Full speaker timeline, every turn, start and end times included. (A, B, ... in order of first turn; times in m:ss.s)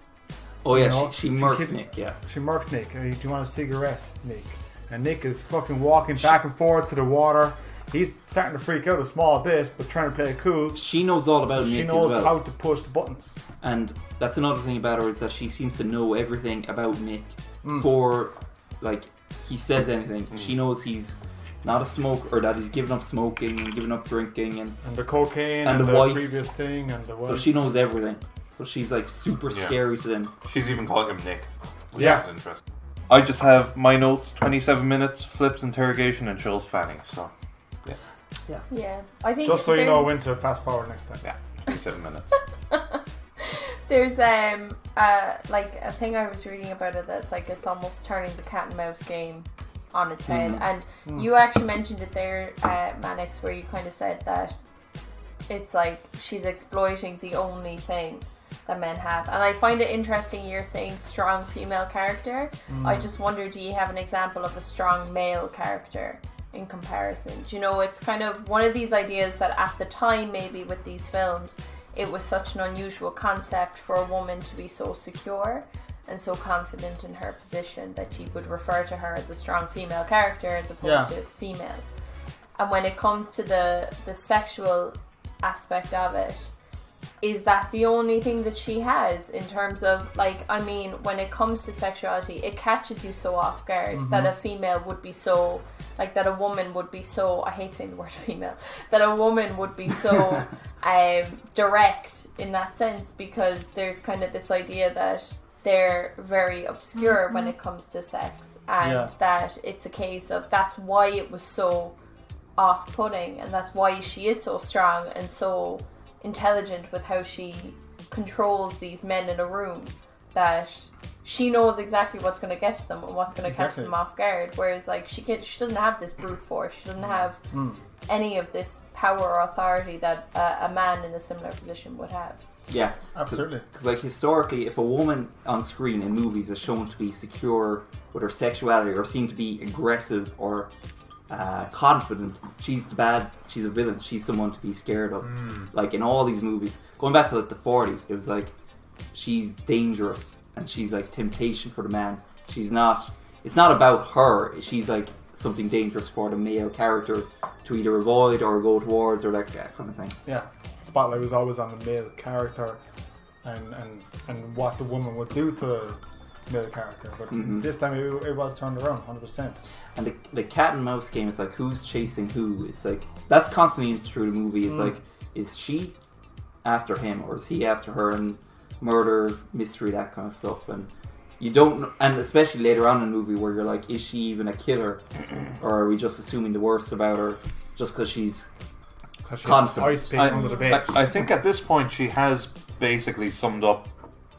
0:00.6-0:02.2 A
0:00.7-0:10.8 B
0:10.8-0:12.4 A
0:11.5-0:13.4 B
0:13.6-0:24.8 A
0:17.6-0:17.9 B
0:24.8-0:27.6 B
0:25.6-0:26.4 A
0:27.2-0:30.3 A
0:29.5-0:29.8 C
0:30.4-0:37.3 C
0:32.0-0:32.3 B
0:38.7-0:40.2 D
0:39.4-0:41.2 B
0:41.2-0:42.4 C
0:42.7-0:54.6 D
0:50.3-0:50.6 A
0:55.5-1:21.8 D
1:02.7-1:03.1 B
1:20.8-1:21.1 B
1:22.6-1:26.5 D
1:27.2-1:51.9 D
1:33.9-1:34.3 B
1:48.8-1:49.1 B
1:52.6-2:07.4 D
2:03.4-2:03.9 B
2:07.5-2:07.8 B
2:08.1-2:12.4 D
2:12.7-2:20.7 A
2:13.1-2:13.7 B
2:21.3-2:28.5 A
2:25.4-2:25.6 C
2:29.1-2:40.2 A
2:40.3-2:42.8 B
2:43.4-2:49.6 B
2:47.3-2:47.7 A
2:50.0-2:56.0 A
2:56.6-3:05.0 A
3:05.6-3:08.5 A
3:09.2-3:11.1 B
3:09.4-3:10.2 A
3:10.1-3:13.9 C
3:10.4-3:10.6 D